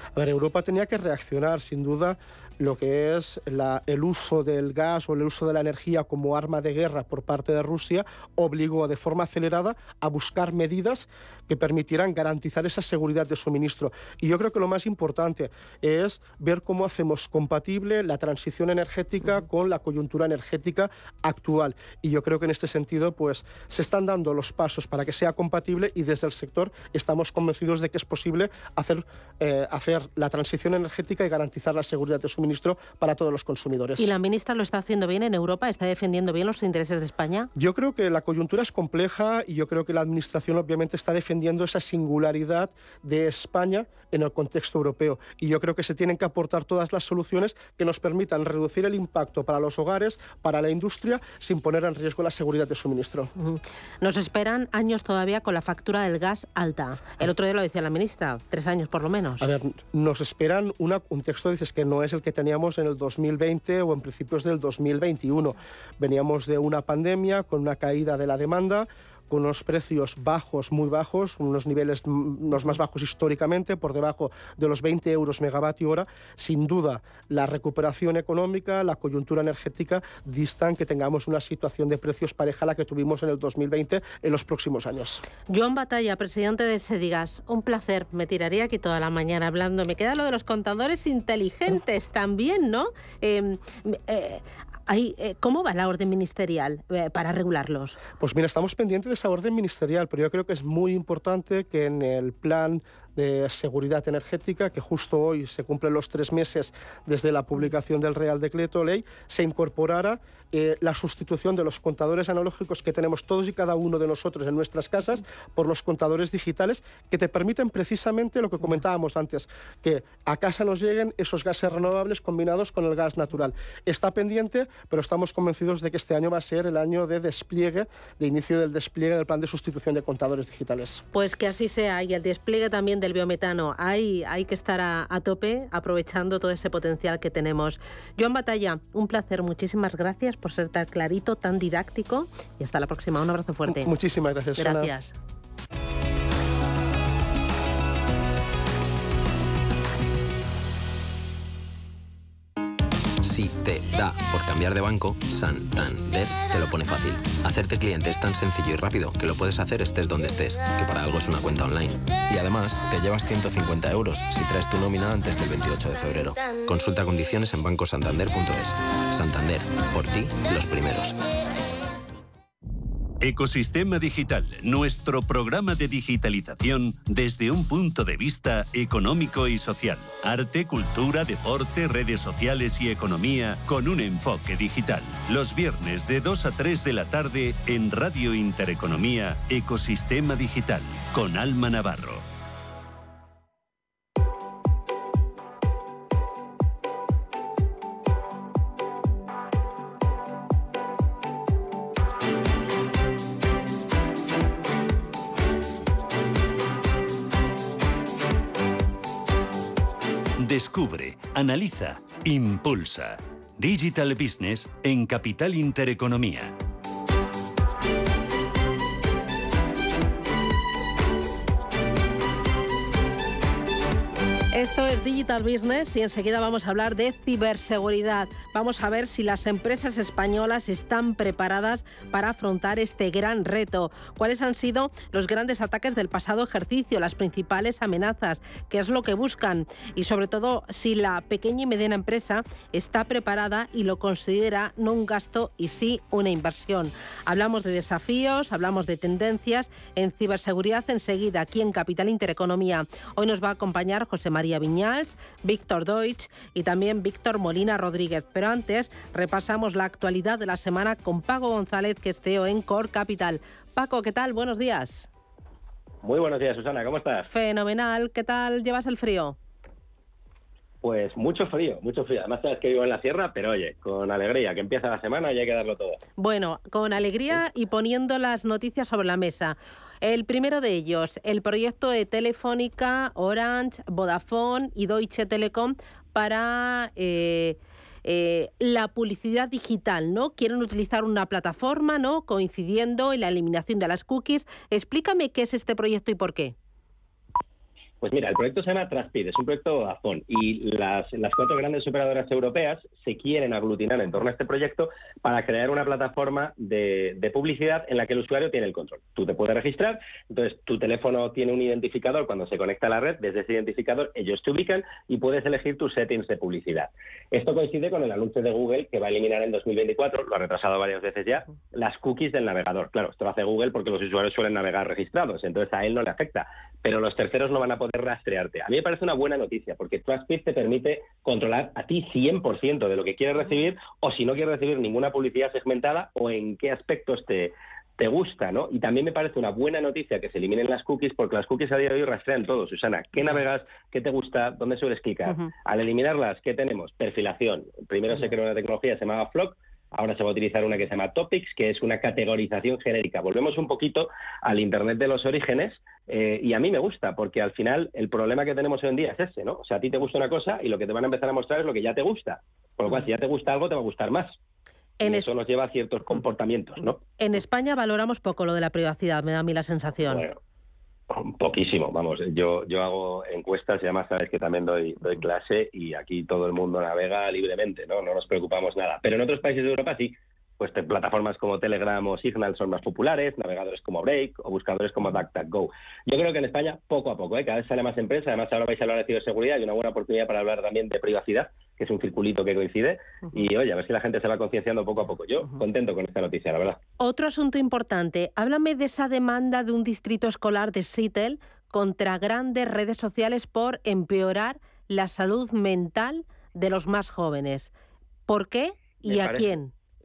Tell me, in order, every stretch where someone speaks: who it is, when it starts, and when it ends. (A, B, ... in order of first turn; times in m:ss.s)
0:00.2-0:34.1 A
0:34.0-0:37.5 B
0:37.6-0:53.3 A
0:53.4-0:59.5 B
0:59.4-1:25.2 A
1:25.5-1:38.0 B
1:38.2-2:11.0 A
2:11.1-2:23.9 B
2:23.7-2:24.9 A
2:24.6-2:25.2 B
2:33.2-2:51.2 C
2:53.2-3:12.2 D
3:30.4-3:36.6 D
3:44.5-4:25.1 B
4:26.0-4:27.2 E
4:27.2-4:29.4 B
4:30.8-4:36.0 E
4:36.2-4:56.6 B
4:58.0-6:04.4 E
6:05.0-6:05.3 B
6:05.0-6:07.0 E
6:07.2-6:10.3 B
6:10.1-6:10.4 E
6:11.4-6:36.8 E
6:37.0-6:47.7 B
6:48.3-6:49.7 B
6:49.2-6:49.4 E